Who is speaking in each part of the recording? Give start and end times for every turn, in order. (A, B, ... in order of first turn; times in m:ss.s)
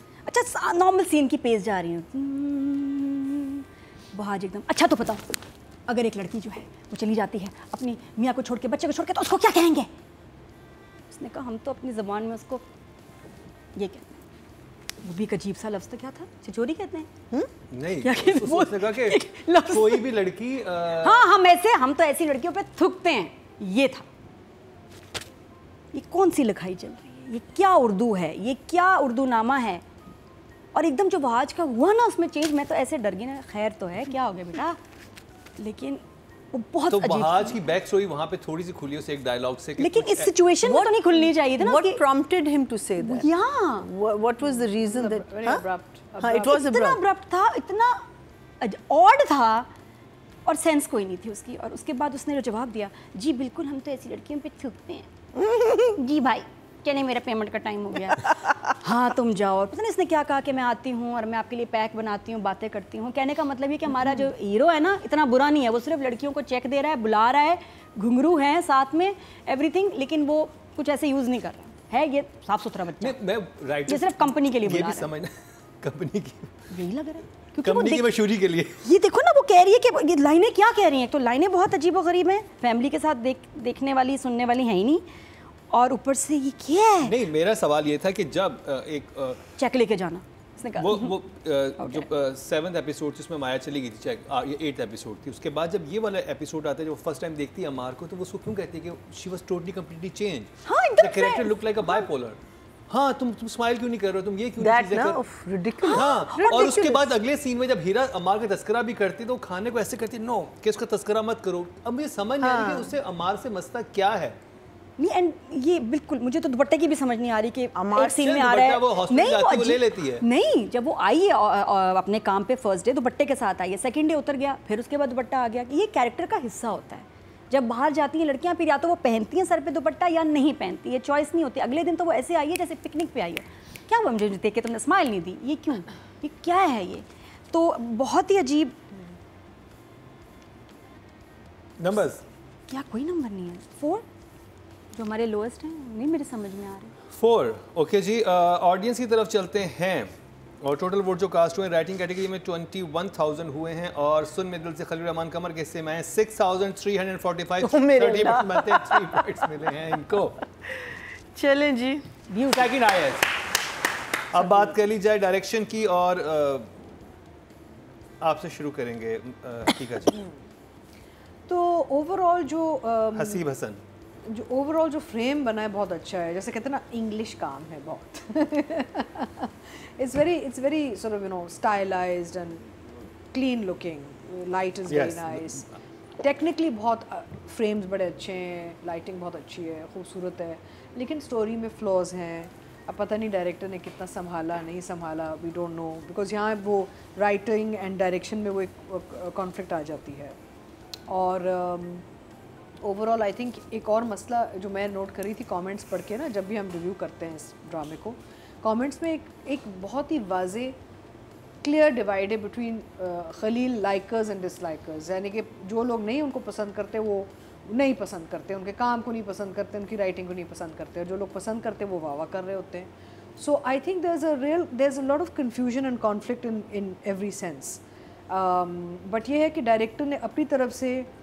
0:00.3-0:09.9 A
0:11.1-0:12.6 A
0:13.8-0:14.2 A
0:15.0-0:17.1 A
0:17.7-0:21.3 B
0:18.0-0:20.1 A
0:20.9-0:24.1 A
0:25.9-0:29.8 A
0:30.7-0:34.8 A
0:35.6-0:37.6 A
0:36.9-0:40.3 B
0:39.8-0:42.0 A
0:40.6-0:43.3 C
0:43.0-0:43.9 A
0:43.8-0:45.7 C
0:44.4-0:46.6 D
0:46.2-0:47.0 C
0:46.4-0:48.0 A
0:48.6-0:49.7 A
0:50.5-0:55.1 A
0:55.4-0:55.9 C
0:55.8-1:13.2 A
1:13.0-1:16.7 B
1:13.9-1:15.1 A
1:16.7-1:18.1 A
1:17.6-1:18.8 B
1:18.8-1:25.0 A
1:25.7-1:27.2 A
1:27.0-1:29.4 B
1:29.6-1:31.2 A
1:30.8-1:45.2 B
1:31.8-1:32.1 A
1:40.6-1:42.0 A
1:44.6-1:47.0 C
1:45.8-1:47.0 A
1:45.9-1:54.4 B
1:52.4-1:53.0 C
1:55.0-2:18.7 A
1:57.8-1:58.2 C
1:58.0-2:00.2 B
2:21.8-2:22.2 B
2:22.7-2:24.0 A
2:24.9-2:26.9 A
2:27.1-2:40.4 B
2:37.6-2:39.6 C
2:40.6-2:42.0 C
2:42.3-2:42.7 A
2:42.5-2:43.3 B
2:44.3-2:46.9 B
2:48.2-2:50.2 B
2:51.5-2:53.4 D
2:53.2-2:53.8 B
2:54.2-3:20.4 D
3:04.9-3:05.6 B
3:21.1-3:22.0 D
3:22.8-3:30.8 D
3:31.6-3:51.1 D